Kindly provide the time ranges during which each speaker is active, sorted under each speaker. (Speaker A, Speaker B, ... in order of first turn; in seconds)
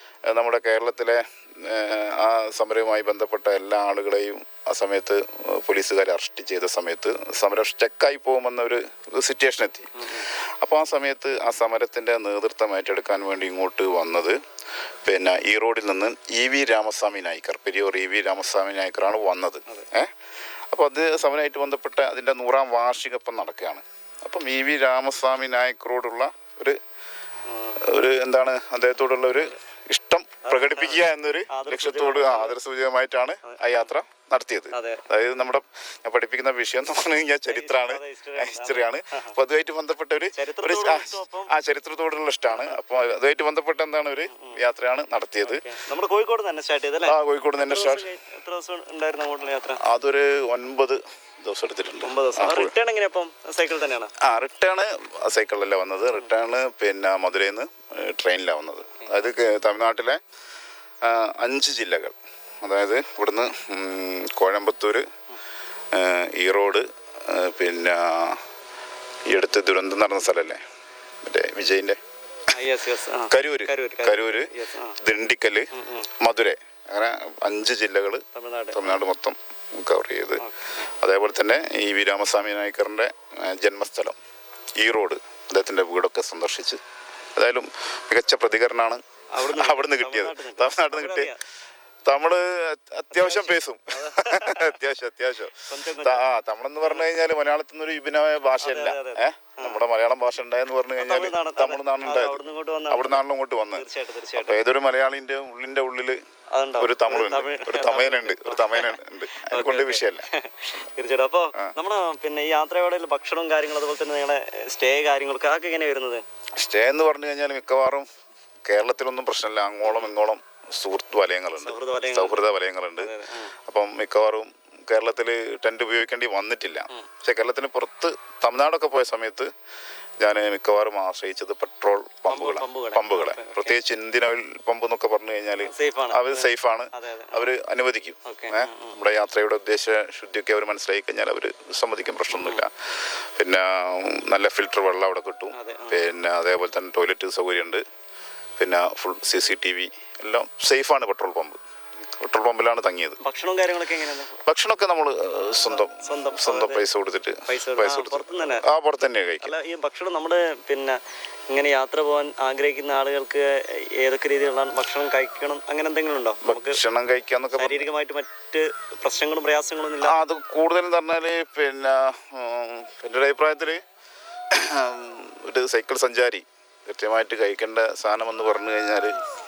Speaker A: 0.3-14.4, 15.0-20.1, 20.7-26.8, 27.8-45.6, 47.0-48.1, 49.8-52.7, 54.2-60.2, 61.0-65.1, 65.9-68.4, 69.3-70.6, 71.2-72.0, 73.3-84.2, 84.8-86.8, 87.3-91.3, 92.0-106.2, 106.8-110.2, 116.5-118.1, 118.6-123.1, 123.6-129.5, 130.2-147.8, 148.6-153.2, 154.4-159.5, 166.4-167.9, 170.0-173.8, 174.5-179.2
Speaker B: 9.9-10.3, 27.5-27.8, 30.4-32.6, 33.4-33.9, 34.7-35.0, 37.5-39.4, 40.3-41.5, 42.5-42.8, 44.3-44.6, 45.4-49.8, 52.0-54.1, 59.0-59.3, 72.5-75.0, 75.7-76.1, 78.3-79.0, 80.4-80.9, 89.3-91.4, 93.1-94.8, 95.7-96.2, 98.6-99.8, 101.0-103.2, 103.7-104.6, 106.5-116.2, 119.8-120.2, 121.6-122.4, 123.0-123.5, 132.3-133.8, 135.6-137.5, 138.2-139.0, 142.3-142.6, 145.5-146.1, 153.2-154.4, 155.6-156.8, 157.5-158.7, 159.4-161.0, 161.5-166.8, 167.5-170.2